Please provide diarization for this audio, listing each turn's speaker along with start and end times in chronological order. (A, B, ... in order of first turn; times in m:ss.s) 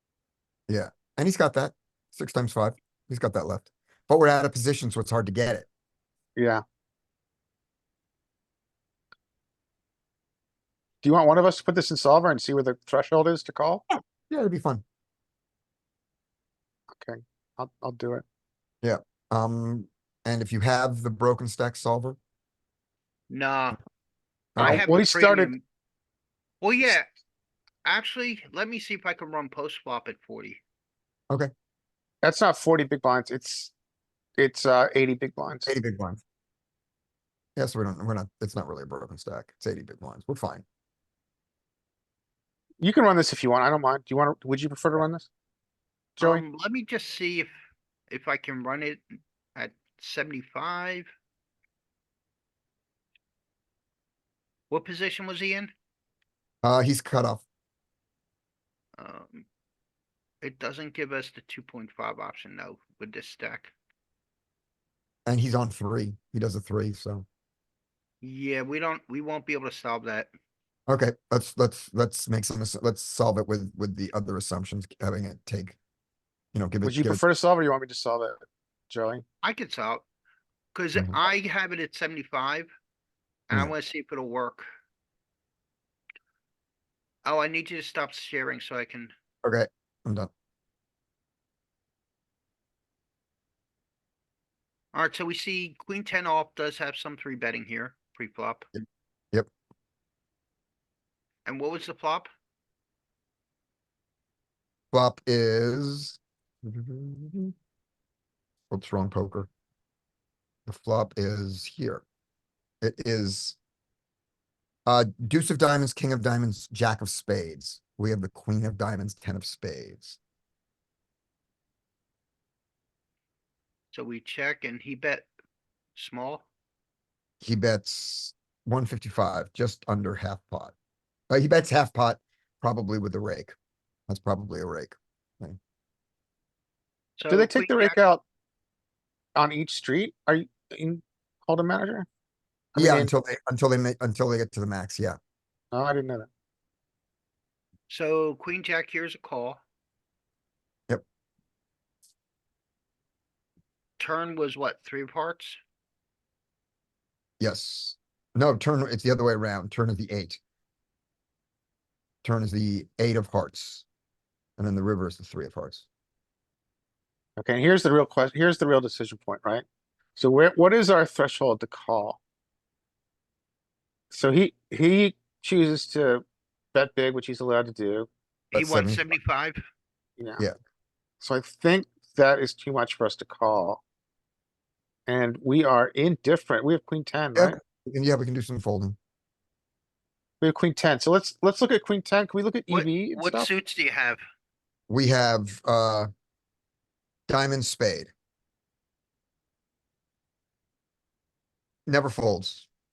0:00.7-0:05.7 A
0:06.4-0:06.6 B
0:11.0-0:13.8 B
0:14.3-0:14.8 A
0:16.9-0:18.2 B
0:18.8-0:22.2 A
0:23.3-0:23.8 C
0:24.6-0:24.8 A
0:24.6-0:25.5 B
0:24.6-0:25.6 C
0:26.6-0:27.0 C
0:27.8-0:30.6 C
0:32.2-0:33.7 B
0:34.4-0:35.7 B
0:35.6-0:36.2 A
0:37.6-0:40.6 A
0:42.8-0:45.3 B
0:46.2-0:46.4 B
0:46.2-0:47.5 C
0:48.1-0:51.1 C
0:54.7-0:55.7 C
0:56.6-0:57.4 A
0:59.0-0:59.4 C
1:00.4-1:03.7 C
1:05.2-1:07.3 A
1:08.2-1:10.3 C
1:10.9-1:15.8 A
1:16.5-1:17.2 A
1:16.8-1:19.2 B
1:19.4-1:20.0 C
1:20.7-1:22.7 C
1:23.5-1:24.6 C
1:27.2-1:29.1 C
1:29.4-1:30.3 A
1:34.9-1:38.6 C
1:38.7-1:39.5 A
1:41.4-1:42.3 C
1:44.9-1:47.5 A
1:48.7-1:49.5 A
1:50.7-1:52.0 A
1:52.8-1:53.6 A
1:54.8-2:00.2 A
2:03.9-2:05.3 C
2:05.9-2:06.4 C
2:07.4-2:10.7 A
2:11.3-2:13.5 A
2:14.1-2:15.6 A
2:17.2-2:18.0 C
2:17.3-2:18.2 B
2:19.3-2:22.1 B
2:22.7-2:23.1 B
2:22.8-2:25.2 A
2:25.7-2:26.3 B
2:27.9-2:29.6 C
2:34.0-2:35.6 C
2:37.4-2:40.4 A
2:42.2-2:43.8 A
2:44.6-2:45.9 A
2:47.4-2:49.6 B
2:50.2-2:52.2 B
2:54.1-2:56.2 B
2:56.7-2:58.1 B
2:58.5-2:59.6 C
2:58.5-2:59.1 A
3:00.2-3:00.4 B
3:01.2-3:03.8 B
3:05.1-3:07.6 B
3:07.3-3:09.0 A
3:10.4-3:13.5 B
3:12.7-3:14.2 C
3:14.9-3:16.1 A
3:17.3-3:18.1 A
3:21.9-3:22.7 A